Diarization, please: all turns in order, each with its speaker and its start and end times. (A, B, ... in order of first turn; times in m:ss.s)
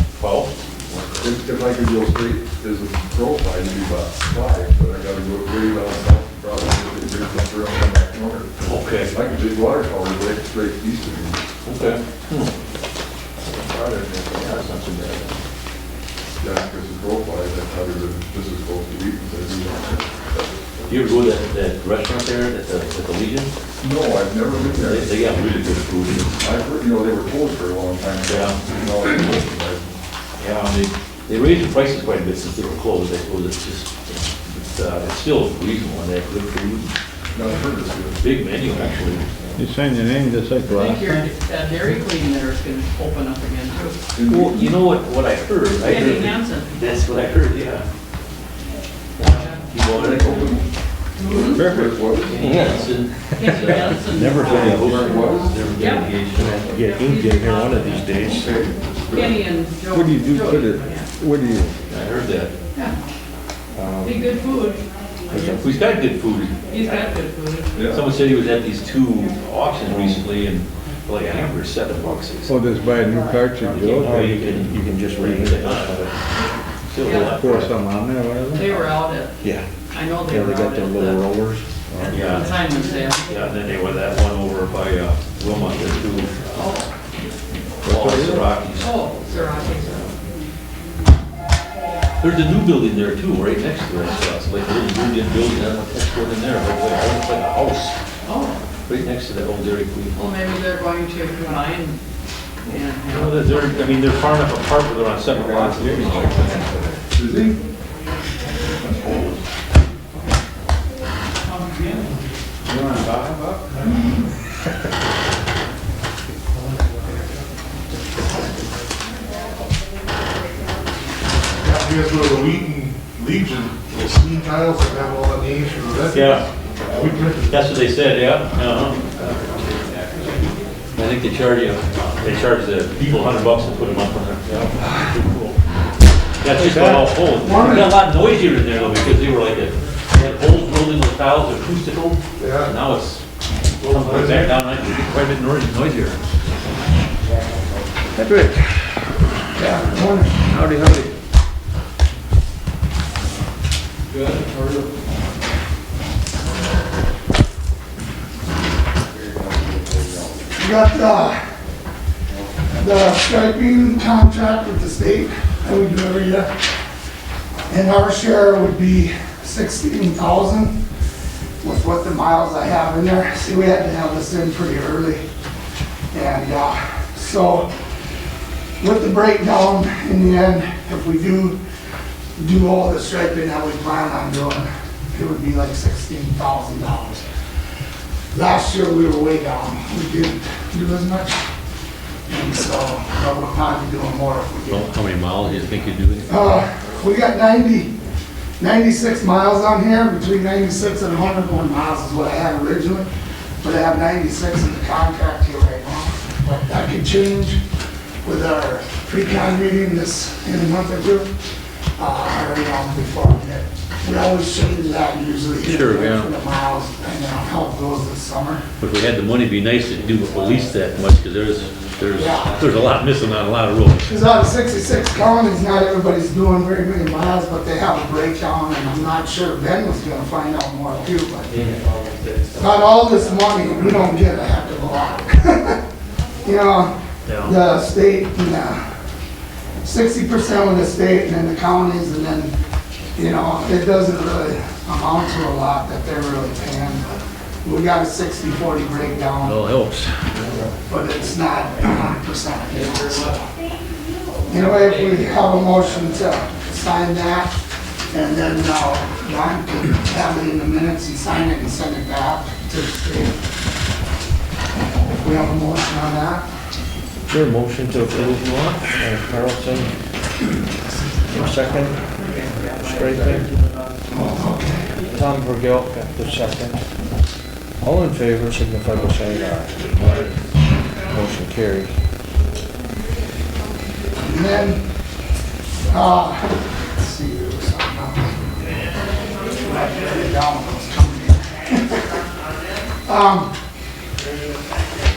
0:00.2-0:01.2 A
0:01.2-0:11.4 B
0:08.6-0:09.2 A
0:11.6-0:12.5 A
0:13.5-0:15.4 A
0:13.6-0:14.2 B
0:16.4-0:20.7 B
0:20.9-0:23.5 A
0:23.8-0:25.3 B
0:24.7-0:26.4 A
0:26.3-0:30.0 B
0:28.2-0:28.6 A
0:30.4-0:36.9 A
0:37.3-0:39.5 B
0:38.2-0:39.2 A
0:39.6-0:41.2 C
0:40.7-0:44.6 D
0:44.1-0:44.7 B
0:44.2-0:47.8 A
0:45.7-0:46.8 D
0:49.2-0:50.5 A
0:49.3-0:49.6 D
0:49.8-0:50.6 B
0:51.2-0:52.8 B
0:51.2-0:51.6 D
0:51.6-0:51.8 C
0:51.6-0:56.6 A
0:52.4-0:52.9 E
0:53.3-0:56.2 D
0:54.4-0:55.6 B
0:54.5-0:55.0 E
0:56.3-0:58.5 E
0:56.7-0:58.4 D
0:58.2-0:59.4 B
0:59.1-1:01.1 D
0:59.9-1:01.7 C
1:01.9-1:02.5 A
1:03.8-1:04.2 E
1:04.0-1:04.8 D
1:05.3-1:05.7 E
1:05.5-1:07.0 A
1:06.7-1:07.8 D
1:07.7-1:08.0 B
1:07.8-1:12.6 A
1:12.5-1:14.2 C
1:13.6-1:16.1 A
1:13.9-1:16.1 E
1:16.9-1:17.8 A
1:17.0-1:17.4 D
1:17.1-1:18.8 C
1:18.5-1:21.3 D
1:19.4-1:19.6 E
1:20.2-1:22.2 E
1:22.1-1:22.5 A
1:22.1-1:23.3 D
1:23.3-1:26.7 A
1:26.6-1:26.9 D
1:27.8-1:28.5 C
1:27.8-1:28.9 A
1:28.8-1:30.1 D
1:32.2-1:37.9 A
1:38.2-1:38.6 D
1:38.9-1:40.2 A
1:40.1-1:42.0 D
1:42.6-1:44.1 D
1:43.0-1:46.7 A
1:45.3-1:47.6 B
1:48.8-1:49.4 B
2:01.6-2:06.4 F
2:06.1-2:09.3 A
2:11.0-2:15.6 A
2:16.4-2:23.2 A
2:17.4-2:18.0 G
2:22.4-2:22.7 F
2:23.8-2:24.6 F
2:23.8-2:26.2 A
2:28.2-2:28.9 E
2:29.5-2:30.4 G
2:30.5-2:31.1 E
2:34.1-2:34.8 A
2:39.4-2:40.3 E
2:40.6-2:41.4 G
2:42.7-2:46.5 G
2:47.7-2:50.8 G
2:51.6-2:55.2 G
2:56.1-2:57.7 G
2:58.8-3:01.6 G
3:02.4-3:07.2 G
3:08.3-3:11.4 G
3:12.3-3:14.9 G
3:14.7-3:16.9 A
3:16.3-3:17.9 G
3:18.6-3:23.1 G
3:23.6-3:27.6 G
3:28.2-3:31.3 G
3:32.0-3:38.6 G
3:35.6-3:36.3 A
3:38.8-3:44.1 A
3:42.1-3:42.6 G
3:44.0-3:51.5 G
3:51.5-3:51.8 A
3:52.5-3:55.8 G
3:56.4-3:58.8 G
3:57.3-3:57.6 A
3:59.8-4:02.5 G
4:03.2-4:09.6 G
4:09.4-4:10.3 A
4:10.9-4:13.6 G
4:14.5-4:17.5 G
4:18.1-4:23.4 G
4:25.2-4:26.5 G
4:27.3-4:29.9 E
4:31.3-4:32.0 E
4:32.2-4:33.9 D
4:32.8-4:33.5 E
4:34.1-4:35.0 G
4:35.0-4:36.8 E
4:37.8-4:39.8 E
4:41.1-4:41.9 E
4:44.2-4:44.8 G
4:45.9-4:48.4 G
4:49.6-4:52.0 G
4:53.0-4:53.5 G